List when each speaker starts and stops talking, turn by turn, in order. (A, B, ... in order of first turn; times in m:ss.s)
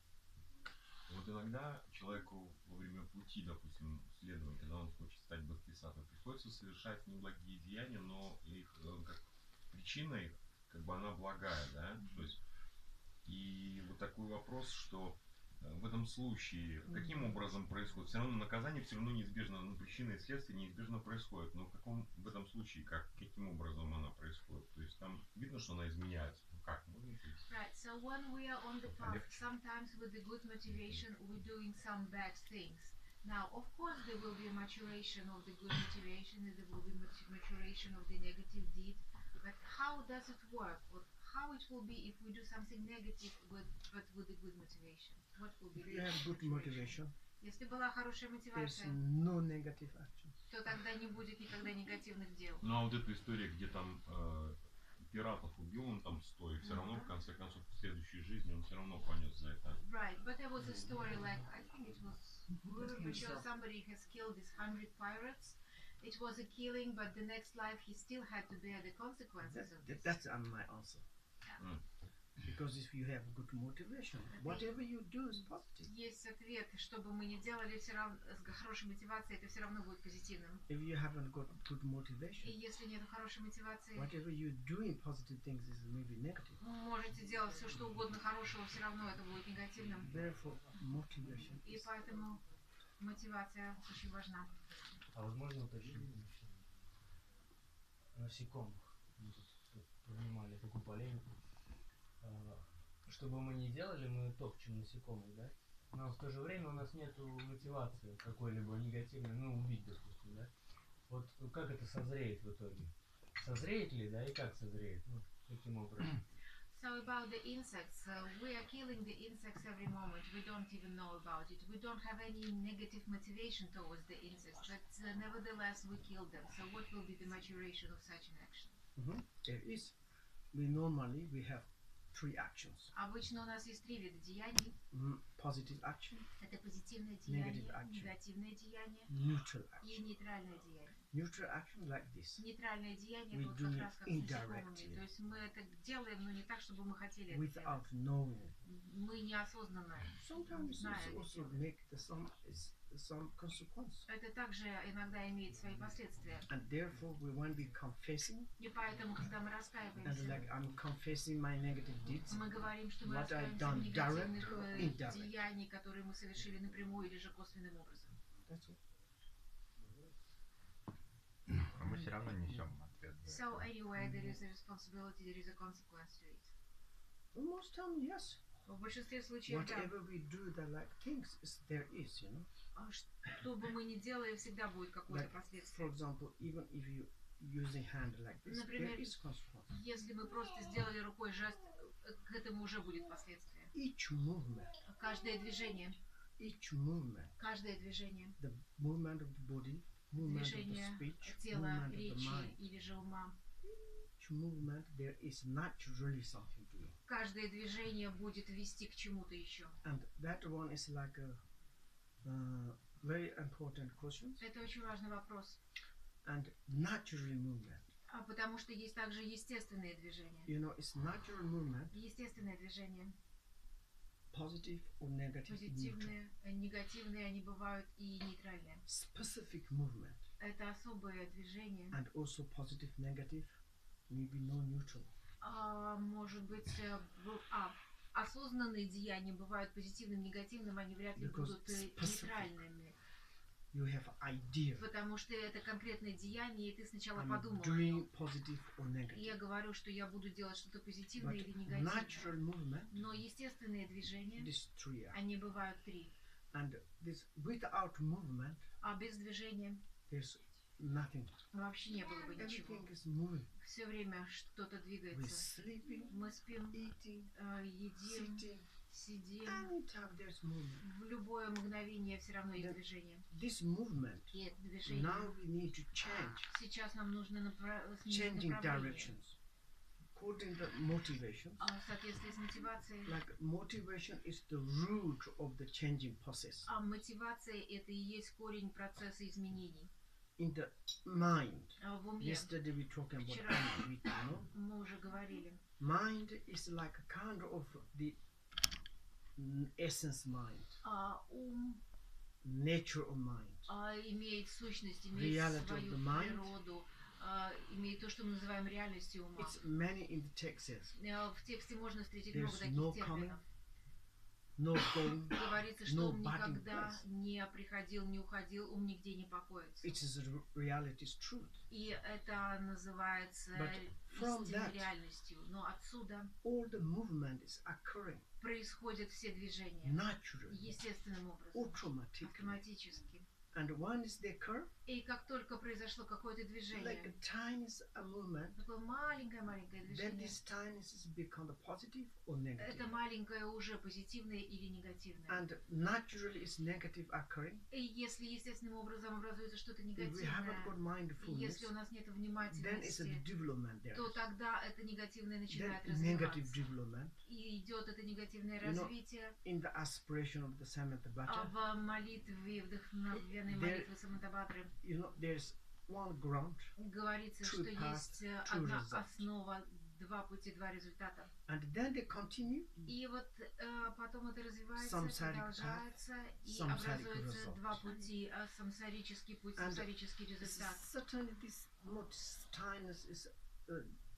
0:01.1-0:12.4 A
0:12.0-0:12.3 B
0:13.2-0:27.4 A
0:16.9-0:17.3 C
0:27.5-0:49.0 B
0:29.0-0:29.4 A
0:45.8-0:47.2 C
0:48.5-0:50.3 C
0:50.5-0:52.6 B
0:52.6-0:59.8 A
0:56.6-0:57.1 B
0:59.8-1:10.1 B
1:02.5-1:03.4 C
1:09.4-1:11.0 C
1:12.4-1:15.9 C
1:14.3-1:14.7 B
1:15.8-1:20.6 B
1:20.7-1:22.6 C
1:22.4-1:24.1 B
1:24.0-1:26.6 C
1:26.6-1:30.1 B
1:30.0-1:32.0 C
1:31.6-1:32.4 B
1:33.0-1:35.0 B
1:35.1-1:36.7 D
1:38.1-1:41.3 D
1:42.2-1:50.5 D
1:51.1-1:56.2 D
1:56.7-2:08.8 B
2:09.0-2:09.9 C
2:10.5-2:12.9 C
2:12.9-2:14.8 B
2:14.9-2:16.3 C
2:16.4-2:19.1 B
2:17.3-2:18.2 C
2:19.1-2:20.0 C
2:19.8-2:21.0 B
2:21.1-2:22.5 C
2:22.4-2:27.8 B
2:23.3-2:25.0 C
2:27.3-2:28.6 C
2:28.6-2:31.6 B
2:30.2-2:34.1 C
2:34.1-2:36.5 B
2:36.5-2:38.5 C
2:38.6-2:40.4 B
2:40.0-2:45.3 C
2:42.3-2:48.2 B
2:48.5-2:48.8 C
2:51.6-2:53.5 E
2:53.2-2:56.5 B
2:57.3-2:58.4 C
2:58.7-2:59.9 B
2:59.5-3:02.5 C
3:02.8-3:05.8 B
3:05.1-3:09.7 C
3:08.5-3:09.1 B
3:09.7-3:13.7 B
3:13.7-3:14.8 C
3:14.8-3:16.0 B
3:16.4-3:17.4 C
3:17.4-3:18.4 B
3:18.4-3:22.6 C
3:20.2-3:23.4 B
3:23.8-3:27.0 C
3:27.1-3:29.8 B
3:29.8-3:31.4 C
3:32.2-3:34.4 C
3:34.4-3:35.6 B
3:36.2-3:37.9 C
3:38.1-3:40.5 B
3:40.5-3:42.0 C
3:41.9-3:43.2 B
3:44.3-3:46.1 C
3:45.5-3:48.8 B
3:48.9-3:50.3 C
3:50.4-3:52.0 B
3:51.9-3:55.1 C
3:55.4-4:03.0 B
4:01.2-4:02.6 C
4:03.7-4:04.9 C
4:04.8-4:08.1 B
4:07.2-4:09.4 C
4:09.1-4:12.3 B
4:11.2-4:13.0 C
4:12.9-4:14.5 B
4:14.4-4:15.2 C
4:15.1-4:16.1 B
4:16.5-4:18.7 C
4:18.8-4:19.8 B
4:20.1-4:21.4 C
4:21.5-4:22.9 B
4:22.2-4:23.5 C
4:23.6-4:25.5 B
4:25.1-4:26.2 C
4:26.1-4:29.7 B
4:26.7-4:27.3 C
4:28.0-4:28.7 C
4:29.4-4:30.8 C
4:30.8-4:33.3 B
4:33.3-4:36.5 C
4:34.3-4:35.4 B
4:36.5-4:39.1 B
4:38.1-4:39.4 C
4:40.1-4:41.6 C
4:41.6-4:43.2 B
4:43.0-4:46.7 C
4:46.6-4:49.9 B
4:50.4-4:54.5 C
4:51.8-4:52.5 B
4:53.2-4:55.6 B
4:55.8-4:58.2 C
4:59.4-5:00.8 C
5:00.8-5:01.8 B
5:02.4-5:03.7 C
5:03.7-5:09.6 B
5:05.1-5:06.5 C
5:09.4-5:11.0 C
5:11.0-5:13.4 B
5:12.3-5:13.4 C
5:14.6-5:17.0 C
5:15.3-5:19.9 B
5:19.8-5:21.6 C
5:21.7-5:26.3 B
5:23.5-5:24.9 C
5:26.4-5:28.2 C
5:28.4-5:33.3 B
5:29.8-5:30.7 C
5:31.5-5:32.6 C
5:33.5-5:34.7 C
5:34.9-5:37.2 B
5:36.7-5:38.6 C
5:38.6-5:40.4 B
5:39.8-5:43.0 C
5:42.6-5:45.4 B
5:45.3-5:47.6 C
5:47.7-5:53.2 B
5:50.0-5:51.7 C
5:52.5-5:54.2 C
5:53.9-5:56.6 B
5:55.5-5:57.2 C
5:57.2-5:59.4 B
5:58.6-6:01.5 C
6:01.3-6:04.7 B
6:03.1-6:03.9 C
6:04.8-6:06.7 C
6:06.8-6:11.3 B
6:07.4-6:09.2 C
6:11.5-6:12.9 C
6:12.9-6:20.9 B
6:14.8-6:17.8 C
6:19.6-6:19.9 C
6:20.4-6:24.0 C